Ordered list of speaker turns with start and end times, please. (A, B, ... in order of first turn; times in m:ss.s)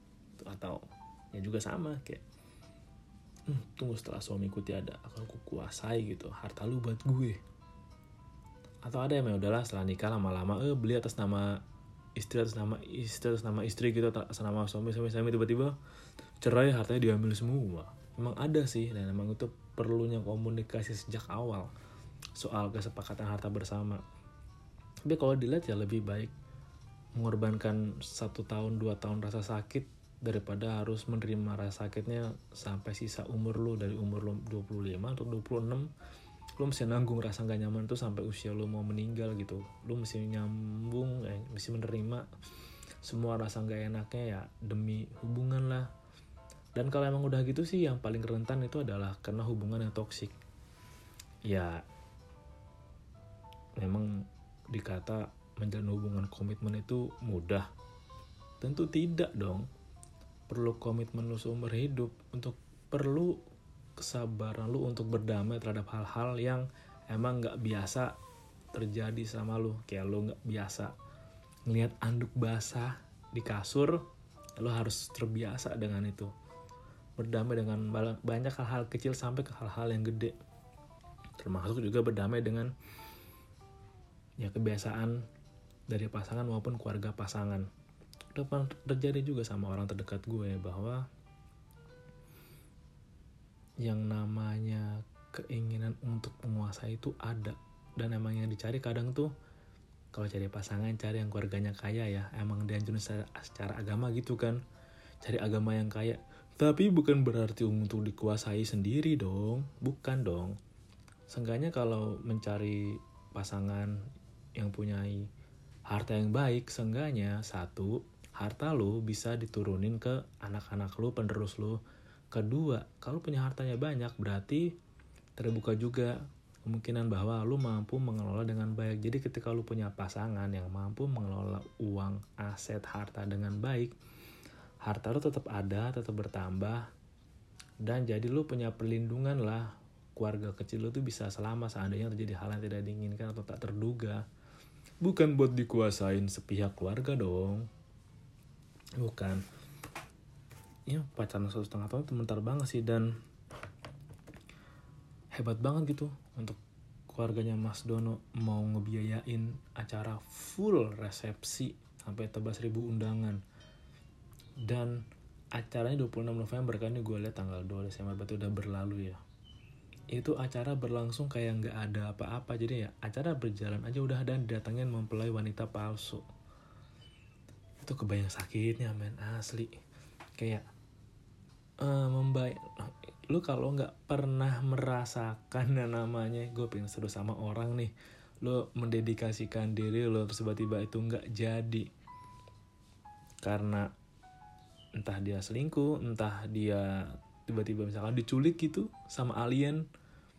0:00.4-0:02.2 A
0:03.5-0:07.4 A
0:08.8-0:11.6 A
0:12.2-0:15.8 A
0:16.4-0:21.7 A
0:22.4-0:24.0 A
0:25.0-0:26.3 A
0:27.2-0:35.9 A
0:36.6-0:42.3 A
0:43.0-0:45.9 A
0:46.8-0:50.4 A
0:51.5-0:51.8 A
0:53.8-0:57.7 A
0:58.6-0:59.7 A
1:00.5-1:03.4 A
1:04.0-1:08.2 A
1:08.7-1:10.9 A
1:11.7-1:14.0 A
1:14.6-1:16.3 A
1:17.2-1:20.4 A
1:21.4-1:22.7 A
1:24.4-1:25.2 A
1:25.9-1:27.7 A
1:28.3-1:31.1 A
1:33.8-1:39.3 A
1:40.1-1:44.6 A
1:45.2-1:50.6 A
1:51.3-1:54.0 A
1:54.6-1:55.3 A
1:55.9-2:01.8 A
2:02.3-2:04.7 A
2:05.4-2:13.9 A
2:14.8-2:16.9 A
2:17.8-2:24.2 A
2:25.0-2:27.7 A
2:29.0-2:29.4 A
2:30.9-2:33.1 A
2:35.3-2:36.6 A
2:37.1-2:43.4 A
2:44.6-2:49.2 A
2:50.1-2:56.2 A
2:57.8-2:59.8 A
3:00.4-3:00.6 A
3:01.8-3:11.9 A
3:13.4-3:13.9 A
3:15.0-3:19.8 A